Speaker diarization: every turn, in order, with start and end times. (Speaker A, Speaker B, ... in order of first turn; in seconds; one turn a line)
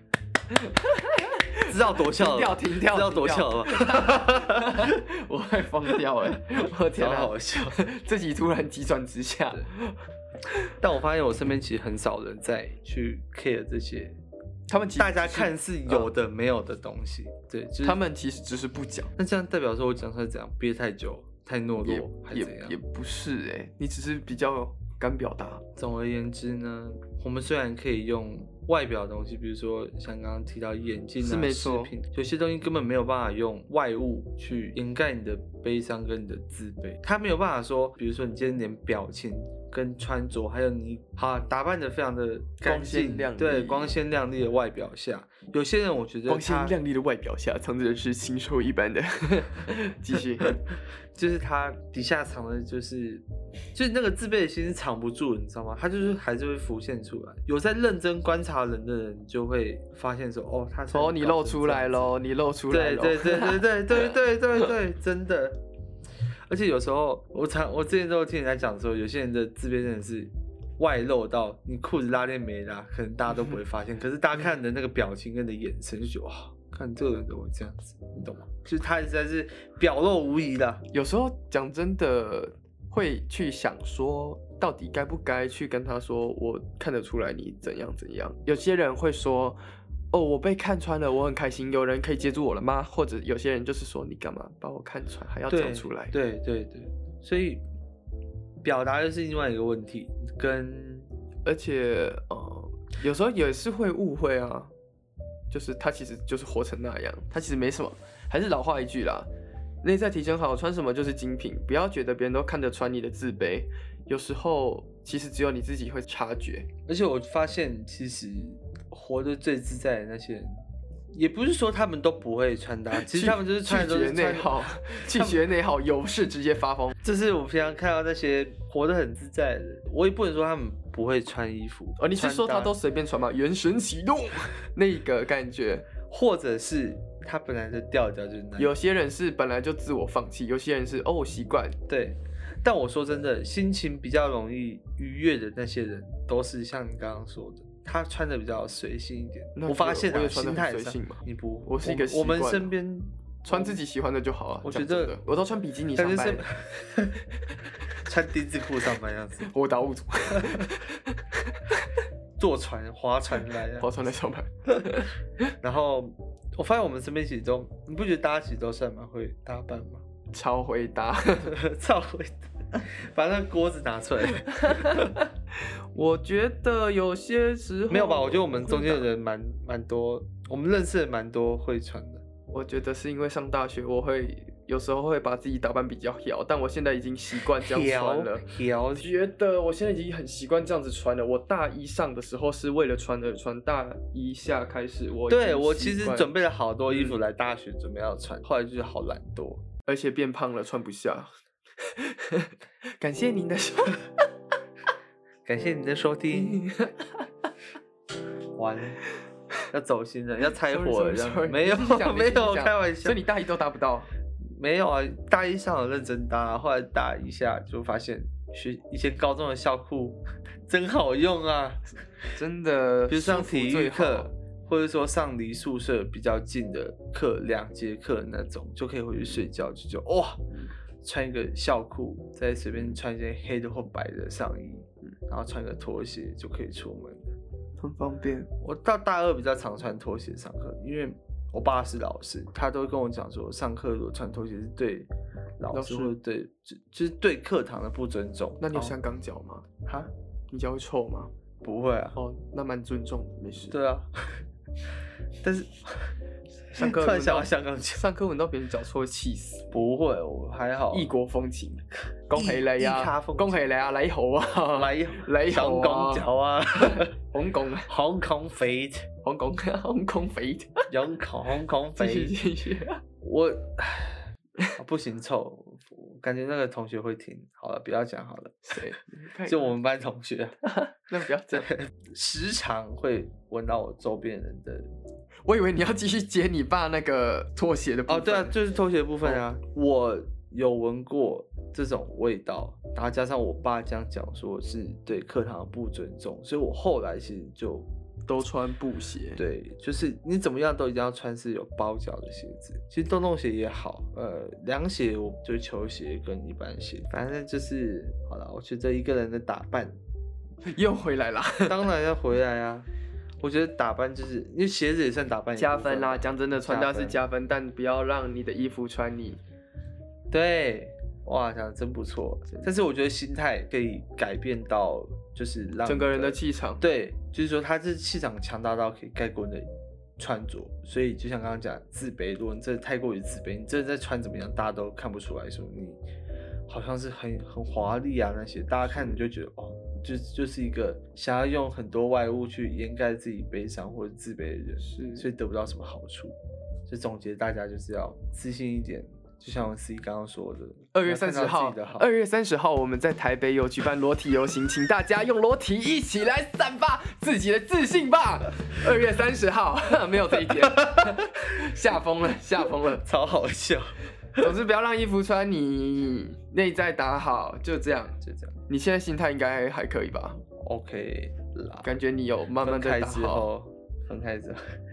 Speaker A: 0.5-10.0
Speaker B: 1.7-5.0
Speaker B: 6.9-7.8
Speaker B: 10.8-14.2
Speaker A: 14.7-16.1
Speaker B: 15.0-18.0
Speaker A: 17.8-19.1
Speaker B: 19.2-22.8
Speaker A: 21.8-25.6
Speaker B: 25.8-46.8
Speaker A: 31.2-31.9
Speaker A: 42.6-43.9
Speaker A: 46.3-50.6
Speaker B: 51.1-62.2
Speaker A: 60.9-64.0
Speaker B: 62.7-65.6
Speaker B: 66.5-80.8
Speaker A: 80.9-89.6
Speaker A: 90.1-96.2
Speaker B: 95.5-97.7
Speaker B: 98.6-101.1
Speaker A: 101.5-104.7
Speaker A: 105.5-109.3
Speaker A: 109.8-116.7
Speaker B: 116.9-120.6
Speaker B: 121.1-125.5
Speaker A: 123.0-127.0
Speaker B: 127.0-132.8
Speaker A: 132.0-135.9
Speaker B: 136.1-138.8
Speaker A: 138.6-141.8
Speaker B: 141.9-153.8
Speaker A: 149.6-152.7
Speaker A: 153.5-156.4
Speaker B: 154.6-155.2
Speaker B: 155.9-157.2
Speaker B: 158.0-159.5
Speaker A: 159.4-162.0
Speaker B: 160.4-160.7
Speaker B: 162.4-163.9
Speaker A: 163.8-165.1
Speaker B: 165.6-170.1
Speaker A: 170.3-171.6
Speaker B: 171.4-175.2
Speaker A: 174.5-179.1
Speaker B: 177.9-182.2
Speaker A: 182.5-188.4
Speaker B: 187.5-189.1
Speaker A: 189.0-196.3
Speaker B: 195.3-199.6
Speaker A: 199.9-204.1
Speaker B: 205.4-206.6
Speaker A: 206.3-207.3
Speaker B: 208.6-209.0
Speaker B: 209.7-213.2
Speaker A: 210.6-214.1
Speaker B: 214.4-221.9
Speaker A: 222.3-224.3
Speaker B: 223.1-230.4
Speaker B: 231.0-237.4
Speaker A: 237.8-238.5
Speaker B: 238.6-249.0
Speaker A: 245.7-246.1
Speaker A: 248.6-249.7
Speaker B: 249.8-250.1
Speaker A: 250.5-251.3
Speaker B: 251.6-252.2
Speaker A: 252.1-253.8
Speaker B: 253.7-254.1
Speaker B: 255.4-256.1
Speaker A: 256.7-259.7
Speaker B: 256.8-258.0
Speaker B: 259.7-261.1
Speaker A: 260.9-267.9
Speaker B: 262.3-263.6
Speaker B: 264.7-267.1
Speaker B: 267.9-269.1
Speaker A: 269.2-270.9
Speaker B: 270.9-272.3
Speaker A: 272.0-273.0
Speaker B: 273.2-278.8
Speaker A: 278.6-279.7
Speaker B: 279.5-280.6
Speaker A: 280.6-281.8
Speaker B: 281.5-284.9
Speaker A: 285.5-288.6
Speaker B: 288.1-297.9
Speaker A: 298.3-299.4
Speaker B: 299.4-310.0
Speaker A: 310.7-311.8
Speaker B: 311.6-312.9
Speaker B: 313.4-317.2
Speaker A: 315.6-319.4
Speaker B: 320.3-336.0
Speaker A: 325.9-326.8
Speaker B: 336.7-352.1
Speaker A: 344.8-345.3
Speaker A: 350.9-363.1
Speaker B: 360.4-361.4
Speaker B: 363.0-364.5
Speaker A: 364.4-370.4
Speaker B: 368.2-368.6
Speaker B: 370.6-371.9
Speaker A: 371.8-373.5
Speaker B: 372.6-374.8